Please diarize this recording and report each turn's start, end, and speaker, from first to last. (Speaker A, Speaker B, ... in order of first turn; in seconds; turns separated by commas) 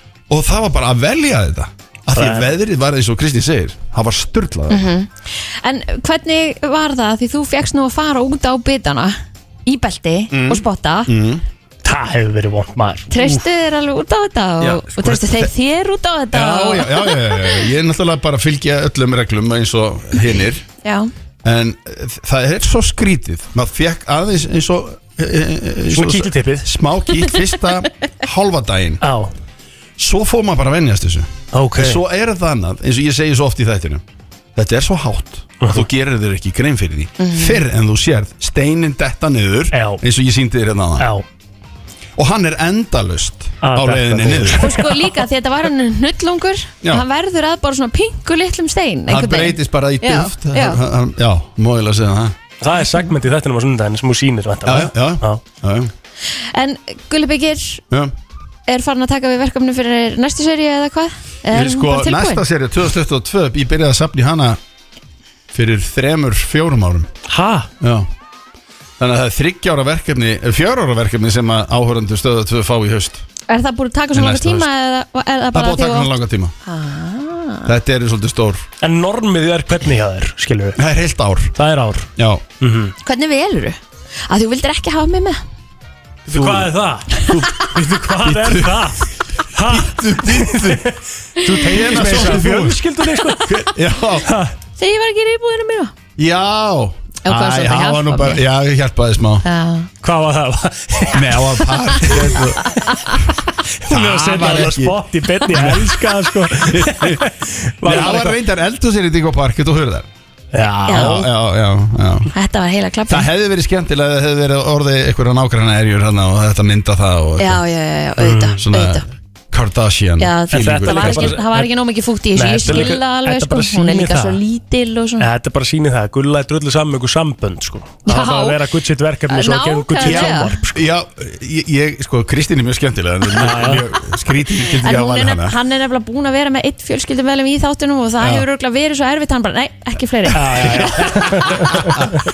Speaker A: 0.3-4.8, Speaker B: 2.1-2.5, Speaker C: 4.7-11.1, Speaker A: 10.3-11.4, Speaker B: 11.8-13.1, Speaker C: 13.1-17.6, Speaker A: 14.6-15.5, Speaker A: 16.3-20.6, Speaker C: 20.8-21.1, Speaker A: 21.4-29.0, Speaker B: 25.9-26.7, Speaker B: 29.0-29.3, Speaker A: 30.0-34.0, Speaker B: 31.5-32.0, Speaker A: 34.5-41.1, Speaker B: 35.6-35.9, Speaker C: 37.2-37.6, Speaker B: 39.7-40.0, Speaker B: 41.0-41.2, Speaker A: 42.2-44.7, Speaker B: 43.6-45.1, Speaker C: 44.5-50.8, Speaker A: 49.1-52.4, Speaker B: 52.6-55.4, Speaker A: 54.6-55.9, Speaker C: 56.4-57.8, Speaker C: 58.7-62.4, Speaker A: 61.5-64.6, Speaker A: 65.5-67.1, Speaker B: 67.3-67.7, Speaker A: 67.8-68.1, Speaker A: 69.0-73.2, Speaker C: 73.5-76.1, Speaker A: 74.1-74.7, Speaker A: 75.5-76.5, Speaker C: 76.6-77.7, Speaker A: 77.6-78.6, Speaker B: 78.8-80.8, Speaker A: 80.8-81.5, Speaker B: 81.6-82.1, Speaker A: 82.2-82.4, Speaker B: 82.6-82.9, Speaker C: 83.0-85.4, Speaker B: 86.3-93.5, Speaker A: 86.3-88.9, Speaker C: 87.1-87.4, Speaker A: 89.6-90.8, Speaker C: 91.4-91.8, Speaker A: 91.7-92.8, Speaker A: 93.4-94.3, Speaker B: 94.2-94.5, Speaker C: 94.8-95.9, Speaker A: 96.2-99.4, Speaker C: 97.2-98.4, Speaker C: 99.4-99.9, Speaker B: 100.0-101.5, Speaker A: 101.1-102.6, Speaker C: 102.6-103.1, Speaker B: 103.8-108.4, Speaker A: 103.9-105.0, Speaker A: 105.5-107.2, Speaker A: 107.8-110.1, Speaker B: 110.5-111.2, Speaker C: 110.9-111.3, Speaker A: 110.9-112.3, Speaker C: 112.3-113.3, Speaker A: 113.1-117.6, Speaker C: 117.4-119.0, Speaker B: 118.2-118.6, Speaker A: 118.6-121.4, Speaker C: 120.2-125.3, Speaker B: 120.5-121.7, Speaker B: 122.3-124.4, Speaker A: 122.6-122.9, Speaker B: 125.2-130.8, Speaker C: 128.1-128.6, Speaker C: 129.3-130.6, Speaker A: 130.0-135.5, Speaker B: 133.3-133.8, Speaker C: 134.8-141.2, Speaker B: 140.3-141.9, Speaker A: 140.6-142.2